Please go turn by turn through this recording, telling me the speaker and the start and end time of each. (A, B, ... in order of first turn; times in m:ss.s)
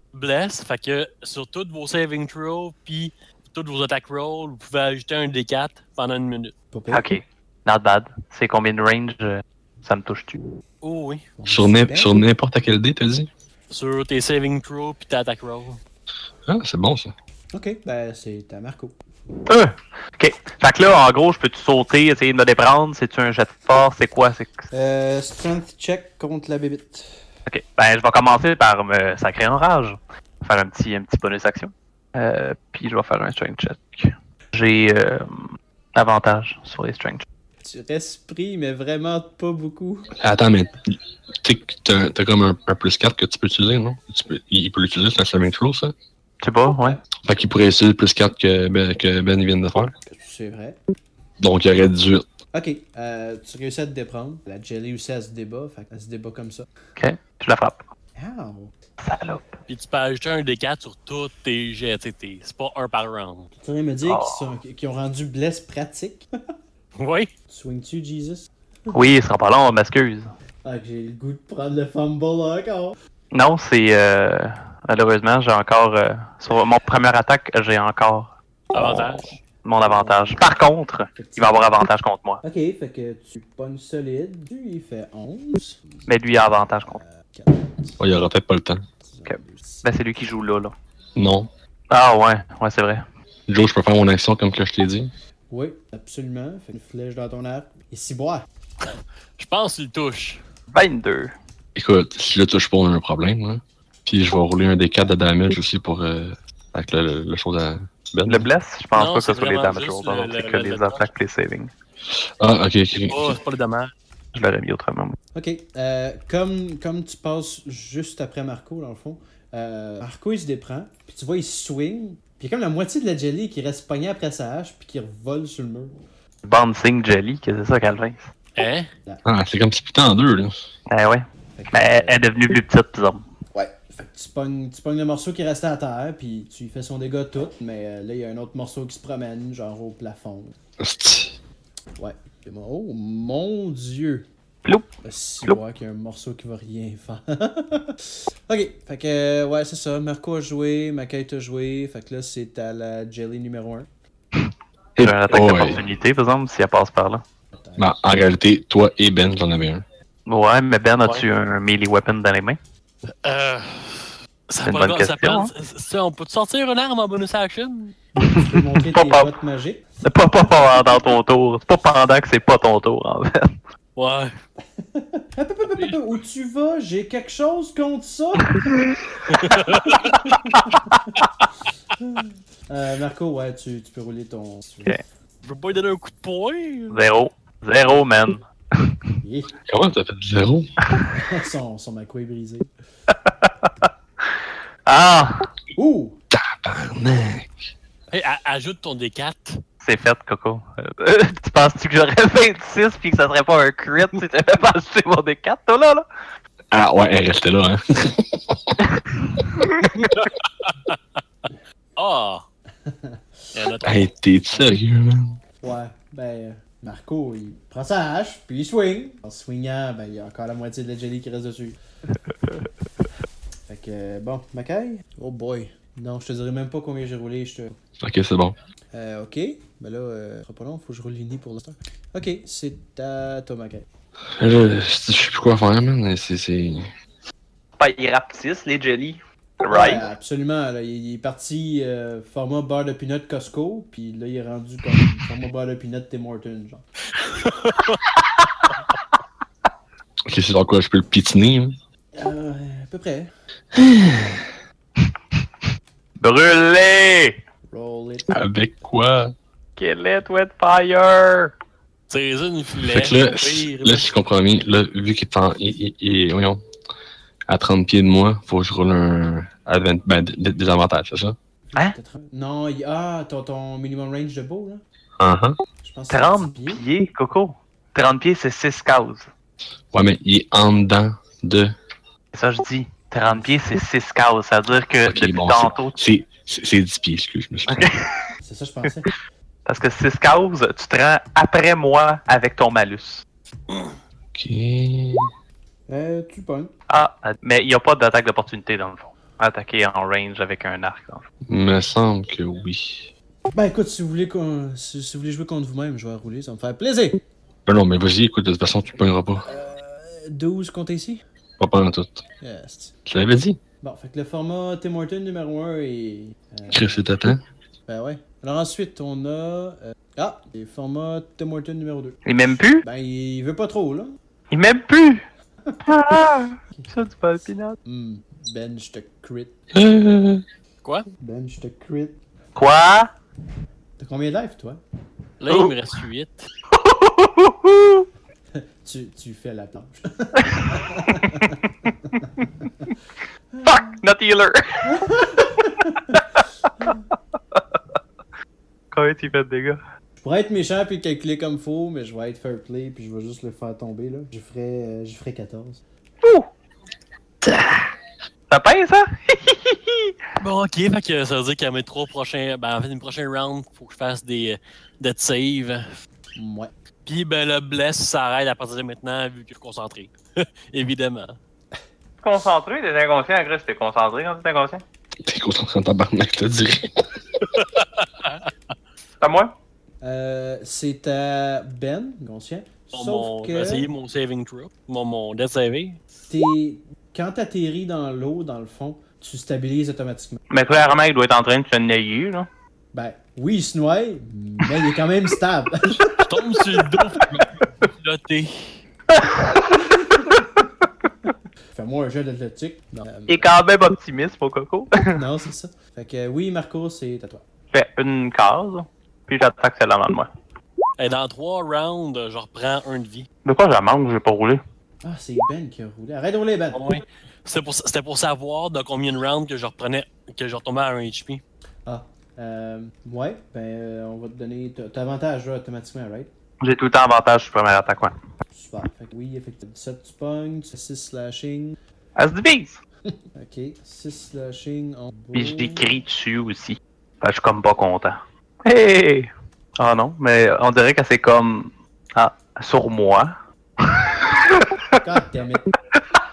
0:00.1-0:06.5 A
0:06.7-0:07.1 B
0:06.9-0:10.4 C
0:10.8-0:11.3 A
0:11.4-0:12.2 B
0:11.5-0:13.3 D
0:13.7-0:15.8 A
0:16.5-0:17.1 D
0:17.5-0:18.9 B
0:19.5-0:24.7 C
0:24.7-0:27.2 B
0:27.5-0:37.2 C
0:37.6-0:40.1 B
0:40.2-0:46.0 D
0:46.4-0:47.0 C
0:47.2-0:49.9 D
0:50.0-0:50.8 B
0:51.4-0:52.3 D
0:52.5-0:56.7 B
0:57.0-0:57.9 C
0:58.2-0:58.7 B
0:59.0-0:59.6 C
0:59.7-1:03.5 A
1:03.6-1:06.3 B
1:04.0-1:04.5 C
1:07.0-1:07.3 A
1:07.5-1:08.9 B
1:08.9-1:10.3 C
1:10.6-1:13.0 B
1:13.3-1:22.4 C
1:18.7-1:19.4 A
1:19.8-1:20.4 B
1:21.1-1:21.8 B
1:22.4-1:26.1 B
1:26.1-1:27.0 C
1:26.9-1:28.0 B
1:28.0-1:28.9 D
1:29.0-1:29.9 B
1:29.3-1:30.7 C
1:31.2-1:31.5 D
1:31.9-1:33.0 C
1:33.5-1:35.1 D
1:35.5-1:38.5 B
1:38.8-1:40.4 A
1:40.7-1:41.3 C
1:41.8-1:48.5 D
1:48.3-1:51.7 C
1:48.9-1:51.1 A
1:52.1-1:53.4 D
1:53.1-1:53.9 A
1:54.3-1:55.2 C
1:55.4-2:06.0 B
2:06.4-2:08.3 C
2:08.6-2:08.9 A
2:09.2-2:10.6 D
2:10.9-2:13.3 C
2:11.6-2:12.2 B
2:13.5-2:20.6 B
2:20.8-2:21.4 D
2:22.0-2:24.3 B
2:25.0-2:33.9 B
2:35.0-2:35.8 D
2:35.0-2:37.2 C
2:37.6-2:38.0 B
2:37.8-2:39.8 D
2:40.3-2:42.6 C
2:43.2-2:48.0 A
2:44.6-2:45.5 C
2:48.2-2:49.9 B
2:48.2-2:49.3 C
2:50.0-2:53.6 C
2:54.0-2:54.4 A
2:54.8-2:58.6 B
2:58.6-2:58.9 C
2:59.3-3:00.1 A
3:00.1-3:01.1 B
3:00.3-3:00.8 C
3:02.0-3:05.0 B
3:05.4-3:07.0 A
3:06.9-3:09.0 C
3:09.2-3:09.5 B
3:09.7-3:10.7 D
3:11.1-3:12.7 B
3:13.1-3:14.3 C
3:14.9-3:15.5 C
3:15.8-3:16.2 B
3:16.3-3:17.6 D
3:18.1-3:19.6 A
3:19.8-3:26.1 C
3:26.7-3:28.8 D
3:30.0-3:31.0 A
3:32.0-3:32.4 A
3:32.8-3:33.5 B
3:33.5-3:34.1 A
3:33.8-3:35.4 D
3:35.6-3:41.8 B
3:43.7-3:47.8 B
3:48.0-3:48.6 D
3:48.9-3:53.9 B
3:54.4-3:56.9 D
3:57.8-4:00.1 C
3:59.7-4:06.8 B
4:07.4-4:08.0 A
4:10.3-4:11.8 D
4:12.1-4:13.3 B
4:13.7-4:14.5 D
4:16.2-4:17.4 C
4:17.7-4:18.3 B
4:18.3-4:19.4 D
4:19.8-4:21.5 C
4:22.1-4:24.1 A
4:22.8-4:26.6 D
4:27.5-4:31.4 D
4:31.7-4:34.8 B
4:35.2-4:35.6 D
4:35.8-4:36.8 B
4:36.1-4:39.3 C
4:39.9-4:41.7 D
4:42.3-4:46.0 C
4:43.3-4:43.6 B
4:45.0-4:47.9 D
4:47.7-4:48.3 C
4:48.4-4:49.1 B
4:49.6-4:53.2 C
4:54.3-4:55.3 D
4:55.9-4:56.7 B
4:56.9-5:01.2 C
5:01.5-5:03.1 D
5:03.5-5:07.2 B
5:07.6-5:09.5 D
5:09.4-5:11.2 B
5:11.6-5:12.2 D
5:12.4-5:12.9 B
5:13.1-5:13.6 D
5:13.8-5:17.0 B
5:16.7-5:17.4 D
5:17.9-5:22.2 B
5:22.2-5:22.8 C
5:22.8-5:24.2 B
5:24.5-5:25.2 C
5:25.9-5:27.8 C
5:27.8-5:29.6 B
5:29.7-5:30.4 D
5:31.2-5:32.2 B
5:32.5-5:33.1 C
5:34.0-5:34.8 B
5:35.4-5:36.5 A
5:35.5-5:35.8 C
5:36.7-5:38.1 C
5:38.5-5:42.9 B
5:40.4-5:41.4 C
5:43.5-5:44.0 B
5:43.6-5:44.9 C
5:44.8-5:46.2 B
5:48.9-5:49.8 C
5:50.2-5:55.8 B
5:56.2-5:56.5 C
5:57.4-5:57.9 C
5:58.5-6:00.1 C
6:00.4-6:06.0 A
6:06.4-6:06.7 B
6:07.1-6:11.4 A
6:12.2-6:14.8 C
6:15.2-6:17.4 D
6:17.6-6:18.5 A
6:19.2-6:19.5 C
6:20.0-6:23.9 B
6:22.9-6:26.0 A
6:26.3-6:30.4 B
6:30.5-6:32.5 C
6:32.9-6:36.4 B
6:36.3-6:38.8 A
6:39.1-6:40.4 C
6:39.9-6:40.4 B
6:41.7-6:43.5 B
6:43.3-6:45.2 C
6:45.1-6:47.4 B
6:47.7-6:50.3 C
6:51.0-6:53.3 A
6:53.4-6:54.6 C
6:55.0-6:57.0 B
6:56.7-7:01.4 A
7:01.9-7:06.3 B
7:06.6-7:08.1 C
7:08.5-7:11.8 B
7:12.2-7:12.8 C
7:13.3-7:16.0 B
7:15.3-7:24.7 C
7:25.0-7:25.7 B